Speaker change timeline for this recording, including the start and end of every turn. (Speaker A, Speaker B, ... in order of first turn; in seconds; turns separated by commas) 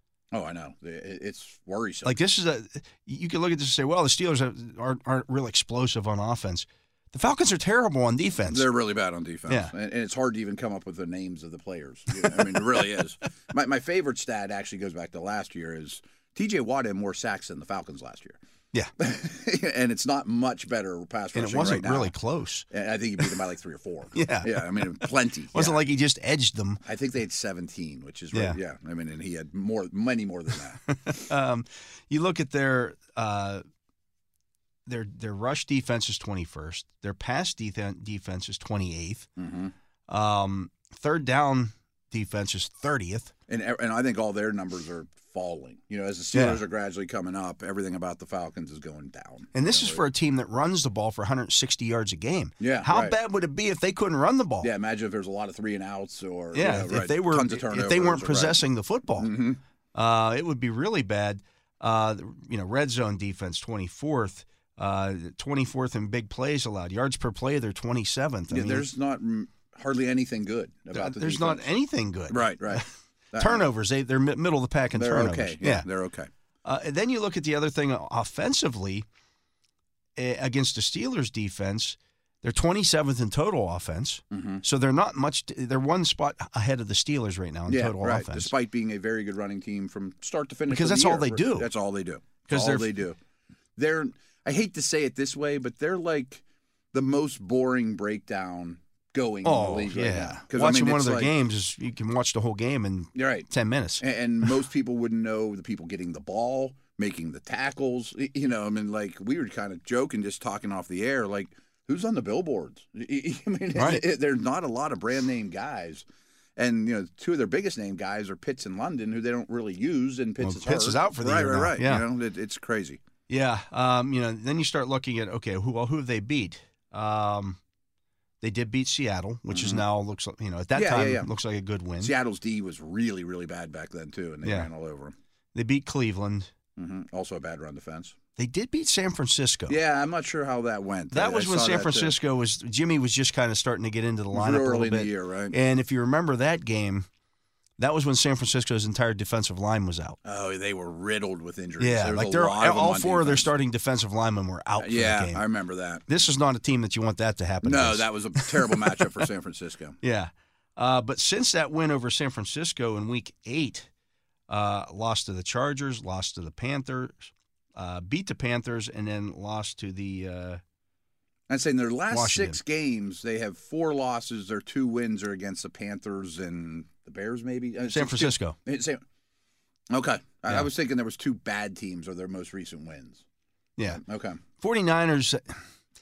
Speaker A: 0.3-2.2, Speaker B: 2.0-8.7, Speaker A: 8.5-18.4, Speaker B: 9.5-9.7, Speaker A: 19.0-22.1, Speaker B: 21.3-22.7, Speaker A: 22.7-25.8, Speaker B: 24.1-26.8, Speaker A: 26.8-30.9, Speaker B: 28.3-28.6, Speaker B: 30.9-33.6, Speaker B: 34.9-39.3, Speaker A: 39.4-39.7, Speaker B: 40.1-43.3, Speaker A: 43.5-50.0, Speaker B: 46.3-46.6, Speaker B: 49.5-54.7, Speaker A: 52.6-53.2, Speaker A: 54.6-58.6, Speaker B: 56.5-59.3, Speaker A: 59.2-59.6, Speaker B: 59.9-68.9, Speaker A: 68.5-71.7, Speaker B: 70.9-75.9, Speaker A: 72.3-73.7, Speaker A: 75.0-76.3, Speaker B: 76.7-79.1, Speaker B: 80.2-88.5, Speaker A: 84.3-84.6, Speaker A: 87.7-93.2, Speaker B: 90.7-91.7, Speaker B: 92.5-92.9, Speaker A: 93.8-101.3, Speaker B: 99.4-104.5, Speaker A: 103.2-103.5, Speaker A: 104.0-116.0, Speaker B: 113.8-114.1, Speaker A: 116.6-123.0, Speaker B: 120.4-122.1, Speaker B: 123.3-127.6, Speaker B: 128.4-132.1, Speaker A: 129.5-129.8, Speaker A: 130.7-131.3, Speaker A: 132.0-135.2, Speaker B: 134.4-134.7, Speaker B: 135.5-136.5, Speaker A: 136.8-138.2, Speaker B: 138.4-139.8, Speaker A: 139.7-142.2, Speaker B: 141.1-147.1, Speaker A: 144.3-145.6, Speaker B: 147.8-150.2, Speaker A: 150.2-153.5, Speaker B: 151.8-155.4, Speaker A: 154.8-156.1, Speaker B: 156.1-159.1, Speaker A: 157.6-160.0, Speaker B: 160.0-163.9, Speaker B: 164.5-170.6, Speaker A: 171.5-179.0, Speaker B: 172.1-172.6, Speaker B: 177.9-178.6, Speaker A: 179.9-183.2, Speaker A: 183.9-184.4, Speaker B: 184.6-185.6